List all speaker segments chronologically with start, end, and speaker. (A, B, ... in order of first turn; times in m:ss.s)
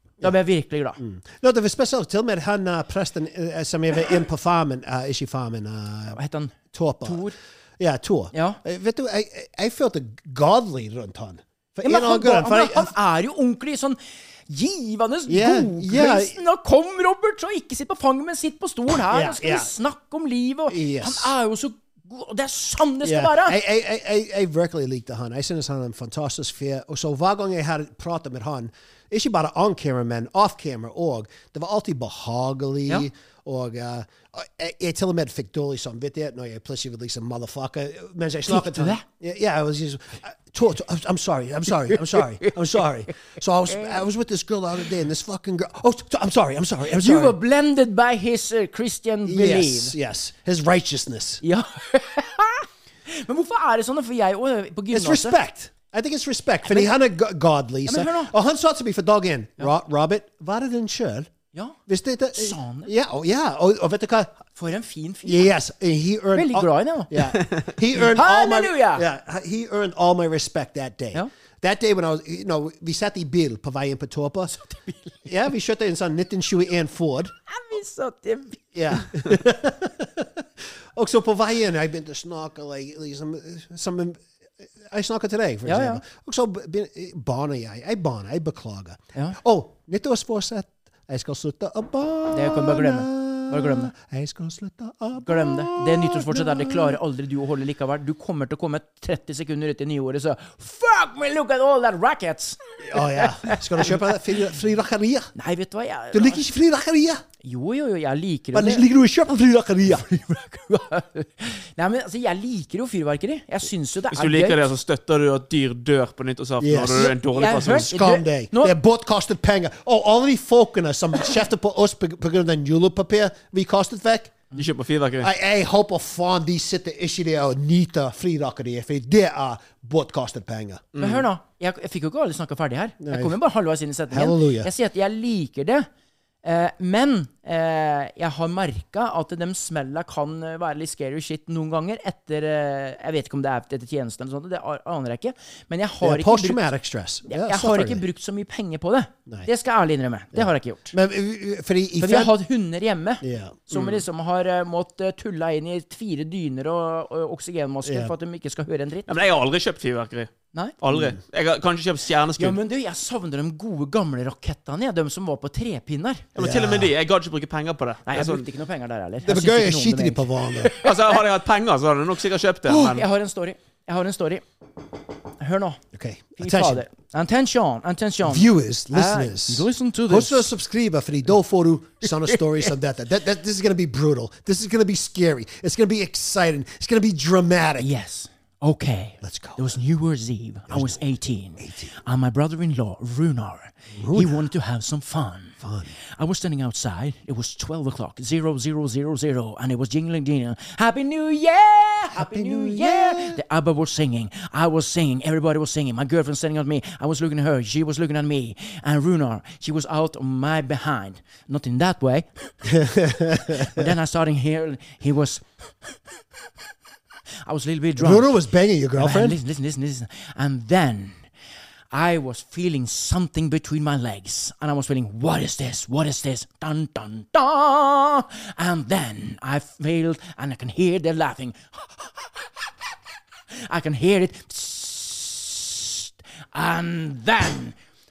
0:00.2-0:01.0 A
0:01.0-0:06.2 B
0:06.1-0:07.3 A
0:06.7-0:12.9 B
0:08.3-0:08.6 A
0:11.8-0:14.0 A
0:14.5-0:23.6 A
0:15.3-0:16.3 B
0:19.1-0:19.7 B
0:20.7-0:21.3 B
0:23.0-0:47.4 B
0:38.5-0:39.0 A
0:41.8-0:42.6 A
0:43.7-0:44.0 A
0:46.9-0:49.9 A
0:49.2-0:51.4 B
0:51.4-0:55.4 A
0:54.9-1:01.3 B
0:56.6-0:56.9 A
0:57.8-0:58.3 A
1:01.9-1:04.4 B
1:02.3-1:02.9 A
1:04.6-1:05.5 A
1:05.2-1:14.5 B
1:06.3-1:07.4 A
1:07.9-1:09.0 A
1:14.5-1:15.2 A
1:15.2-1:17.3 B
1:17.5-1:19.0 A
1:18.7-1:24.2 B
1:24.8-1:37.0 B
1:25.6-1:26.0 A
1:32.3-1:33.9 A
1:35.2-1:44.0 A
1:42.8-1:45.3 B
1:45.3-1:46.4 A
1:46.1-1:47.2 B
1:47.4-1:48.9 A
1:48.5-1:50.1 B
1:50.0-1:54.6 A
1:54.1-1:57.9 C
1:56.6-2:04.3 B
1:57.3-1:58.7 A
2:04.6-2:05.3 C
2:05.2-2:10.8 B
2:10.9-2:11.2 C
2:11.0-2:15.9 A
2:13.0-2:13.4 B
2:14.1-2:14.7 B
2:16.4-2:26.6 A
2:26.0-2:28.0 B
2:27.3-2:30.9 A
2:30.3-2:32.4 B
2:32.0-2:39.1 A
2:33.2-2:34.0 B
2:37.8-2:38.1 B
2:39.1-2:40.3 C
2:40.8-2:42.6 C
2:42.4-2:46.3 A
2:46.4-2:48.4 C
2:46.4-2:46.9 B
2:48.0-2:50.9 A
2:49.2-2:50.7 B
2:50.8-2:53.0 C
2:52.6-2:54.4 A
2:55.4-2:55.8 A
2:55.9-2:56.8 B
2:56.4-3:00.5 A
2:58.2-3:07.9 B
3:02.2-3:02.7 A
3:07.8-3:15.6 A
3:09.2-3:09.8 B
3:10.7-3:11.0 B
3:11.6-3:11.9 B
3:13.9-3:14.4 B
3:15.6-3:15.9 B
3:16.2-3:32.5 A
3:22.1-3:23.4 B
3:32.6-3:33.9 B
3:33.5-3:35.9 A
3:37.4-3:38.4 A
3:38.0-3:39.4 B
3:39.0-3:41.2 A
3:41.9-3:52.1 A
3:53.6-3:57.7 A